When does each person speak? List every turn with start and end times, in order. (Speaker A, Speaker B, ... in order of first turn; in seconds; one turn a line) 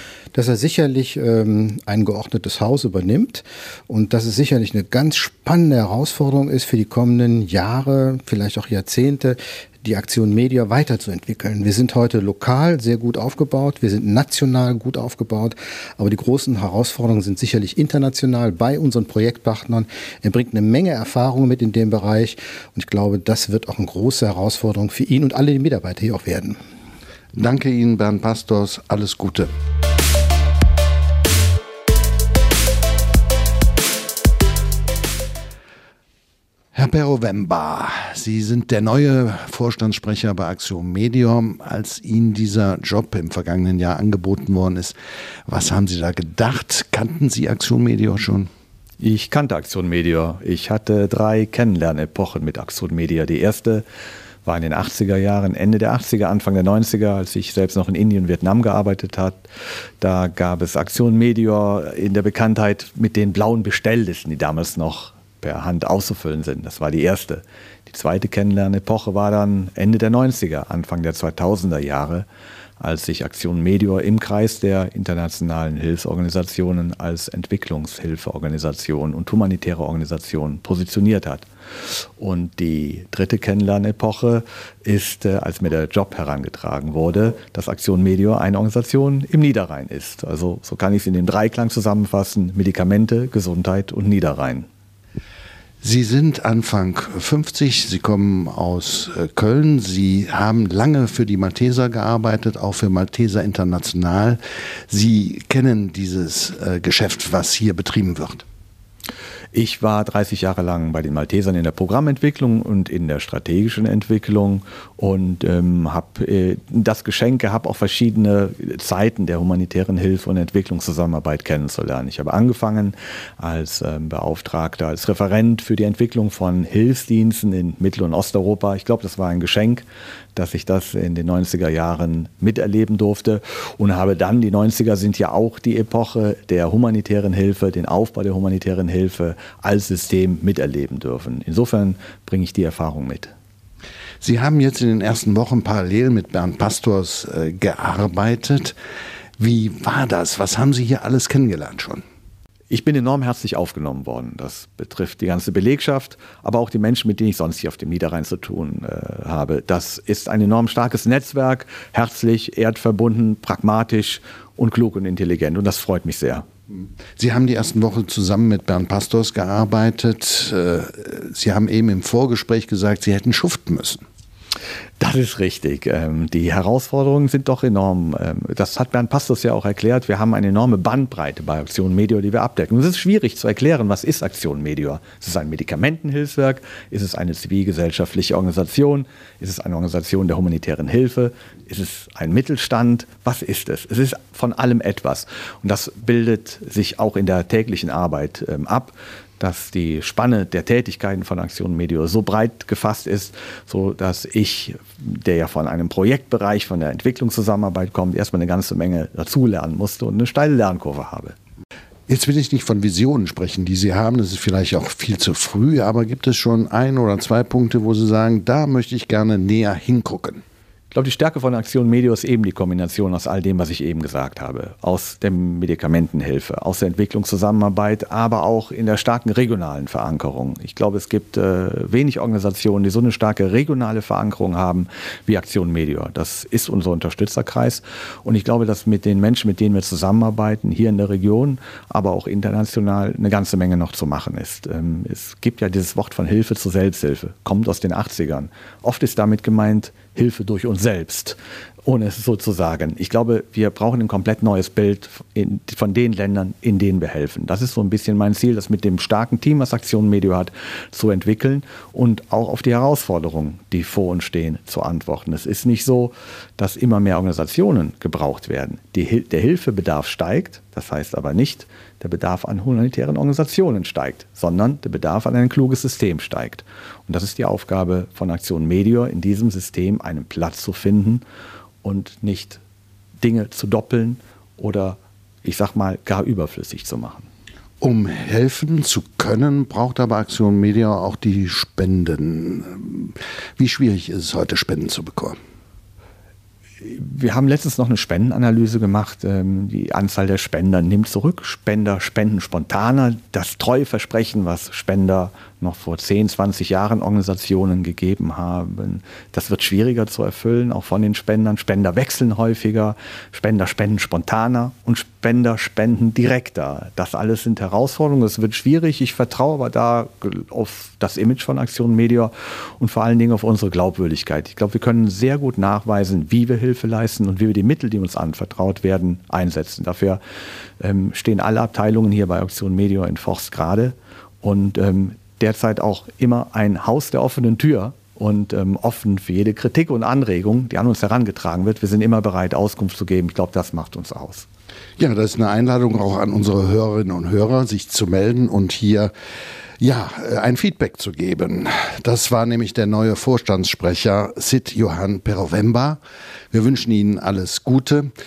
Speaker A: 0.3-26.6
Speaker B: 27.3-29.5
Speaker B: 36.7-45.0
Speaker B: 45.5-48.5
Speaker C: 49.0-53.8
Speaker C: 54.5-59.4
Speaker C: 60.0-72.3
Speaker C: 72.8-94.7
Speaker B: 95.8-108.5
Speaker C: 109.5-129.8
Speaker C: 130.3-143.3
Speaker B: 144.2-148.8
Speaker B: 149.4-152.0
Speaker C: 152.7-166.4
Speaker B: 167.2-174.0
Speaker C: 175.0-211.3
Speaker B: 212.1-220.4
Speaker C: 220.9-281.2
Speaker C: 281.8-282.6
Speaker C: 283.2-287.3
Speaker B: 287.8-295.4
Speaker C: 296.8-330.2
Speaker C: 330.8-344.5
Speaker B: 345.0-349.1
Speaker B: 349.8-358.1